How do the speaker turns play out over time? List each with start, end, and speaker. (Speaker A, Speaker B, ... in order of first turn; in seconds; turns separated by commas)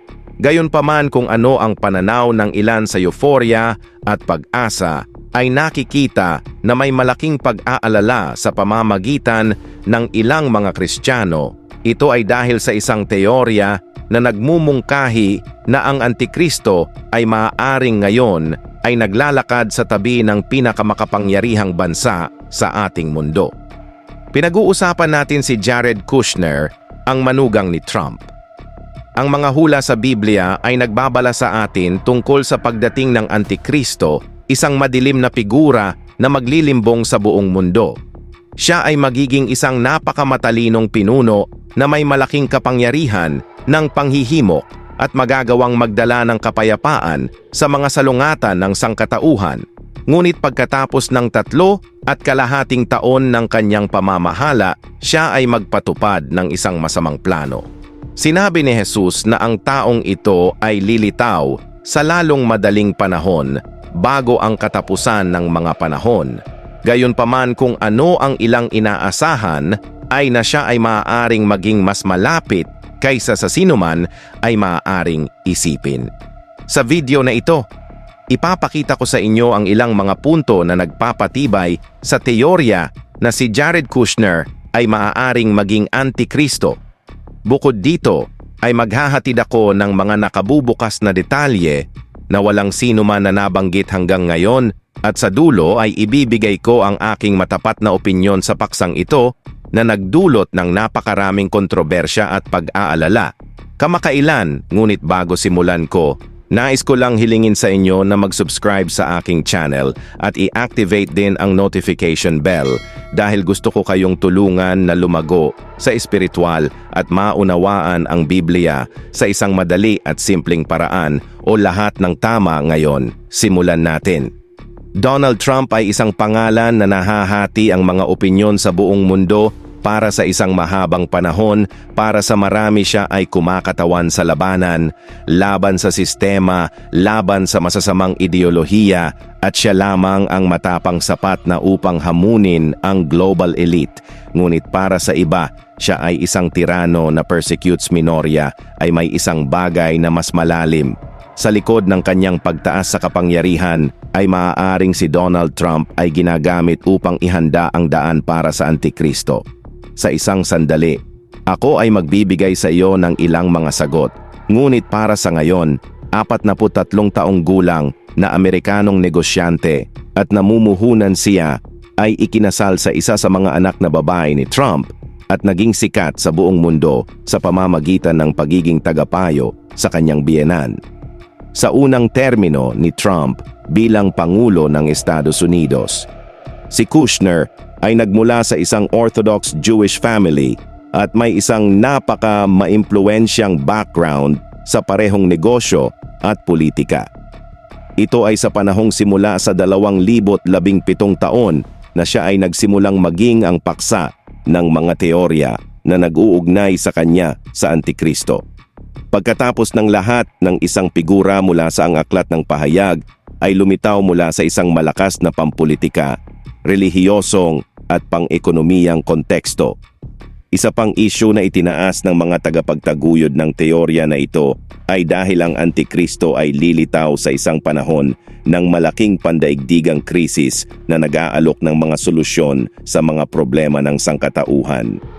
Speaker A: 0.4-23.5, Speaker A: 24.3-28.3, Speaker A: 29.2-38.0, Speaker A: 38.6-76.1, Speaker A: 76.7-77.7, Speaker A: 78.3-86.8, Speaker A: 87.5-124.3, Speaker A: 125.0-159.4, Speaker A: 160.0-180.8, Speaker A: 181.5-186.1, Speaker A: 186.7-197.1, Speaker A: 198.0-208.4, Speaker A: 209.1-219.8, Speaker A: 220.5-235.0